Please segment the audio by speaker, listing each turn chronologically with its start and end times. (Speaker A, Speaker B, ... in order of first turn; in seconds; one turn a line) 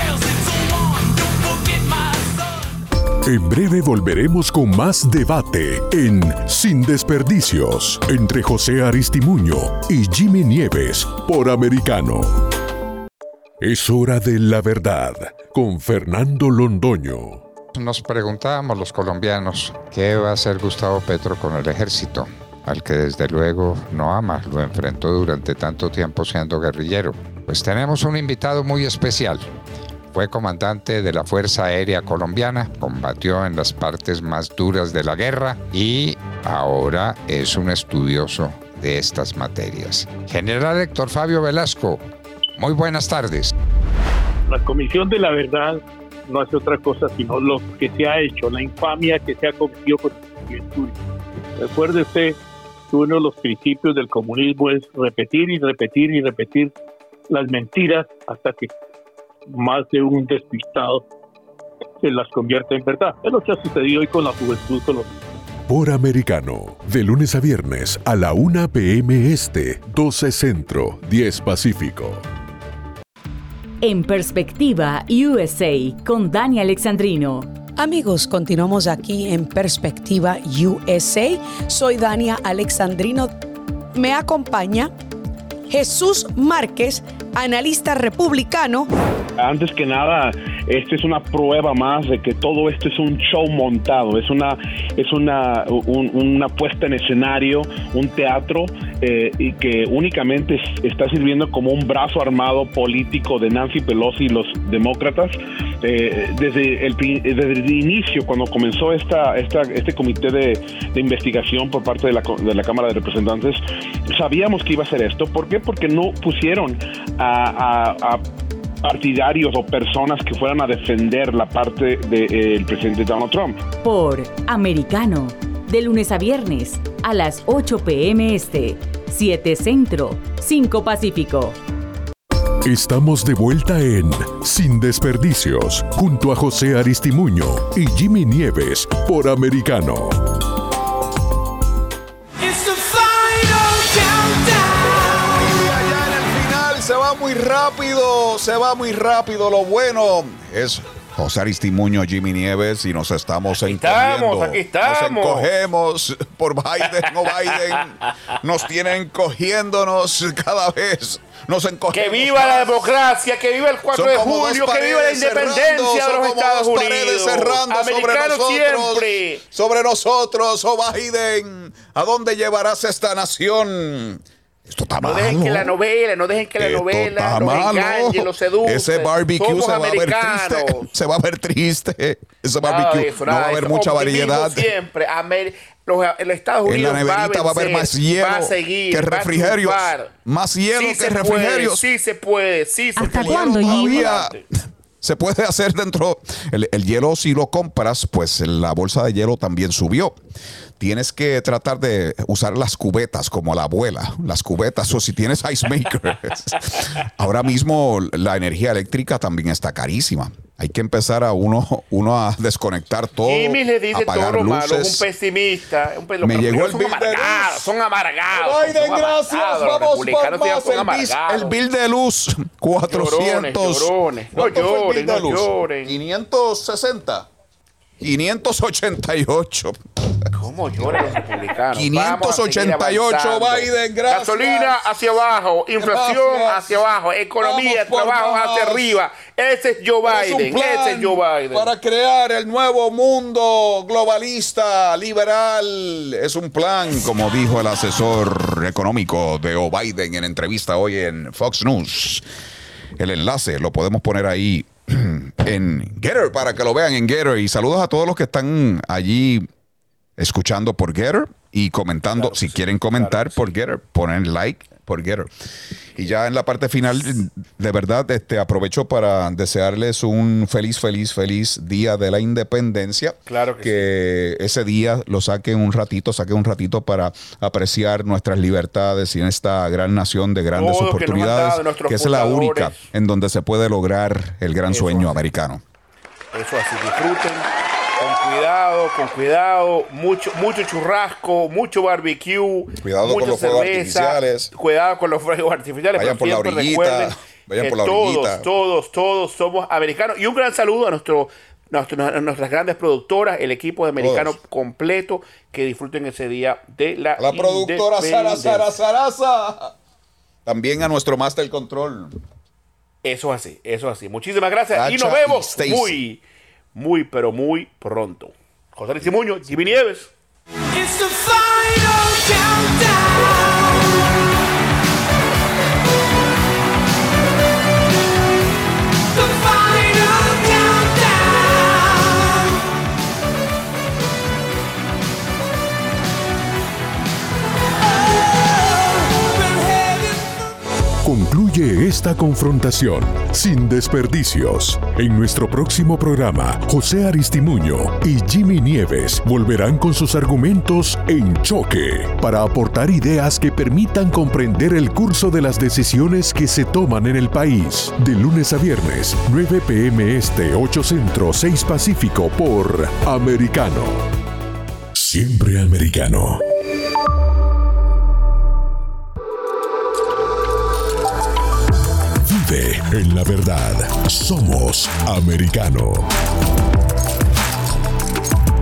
Speaker A: 3.2-12.4
Speaker A: 13.6-17.4
Speaker B: 17.7-29.5
Speaker B: 30.1-42.0
Speaker B: 42.6-43.5
Speaker C: 44.5-51.0
Speaker C: 51.6-52.4
Speaker C: 52.9-56.7
Speaker C: 57.3-58.7
Speaker C: 59.5-61.0
Speaker C: 62.0-65.1
Speaker A: 65.7-72.2
Speaker D: 73.8-77.5
Speaker E: 77.8-83.3
Speaker E: 83.9-84.9
Speaker E: 85.7-88.9
Speaker F: 89.4-113.6
Speaker F: 114.1-118.2
Speaker F: 118.8-123.6
Speaker D: 123.8-131.6
Speaker A: 132.6-140.4
Speaker G: 145.2-162.7
Speaker H: 153.6-155.5
Speaker H: 157.1-158.1
Speaker H: 161.9-169.4
Speaker G: 163.9-175.7
Speaker H: 175.0-180.9
Speaker G: 176.6-184.7
Speaker H: 182.6-190.1
Speaker G: 186.6-191.8
Speaker H: 190.7-194.4
Speaker G: 193.0-194.4
Speaker G: 195.0-200.2
Speaker G: 200.8-215.0
Speaker H: 213.2-221.6
Speaker G: 216.2-217.7
Speaker G: 218.3-227.3
Speaker H: 222.8-225.9
Speaker G: 228.0-229.8
Speaker H: 230.3-241.7
Speaker G: 231.7-234.8
Speaker G: 235.8-236.9
Speaker G: 237.4-238.9
Speaker G: 240.0-252.2
Speaker G: 253.0-259.5
Speaker G: 260.2-265.3
Speaker H: 262.1-263.5
Speaker G: 265.9-285.6
Speaker H: 273.3-273.9
Speaker H: 280.5-282.8
Speaker H: 284.7-285.2
Speaker H: 286.3-287.5
Speaker H: 288.0-308.7
Speaker G: 292.8-294.5
Speaker G: 295.9-298.4
Speaker G: 304.0-304.4
Speaker G: 307.2-309.7
Speaker G: 310.4-312.2
Speaker H: 313.0-316.2
Speaker G: 314.7-315.9
Speaker H: 316.7-320.1
Speaker A: 341.0-364.0
Speaker A: 364.9-366.4
Speaker A: 372.2-376.1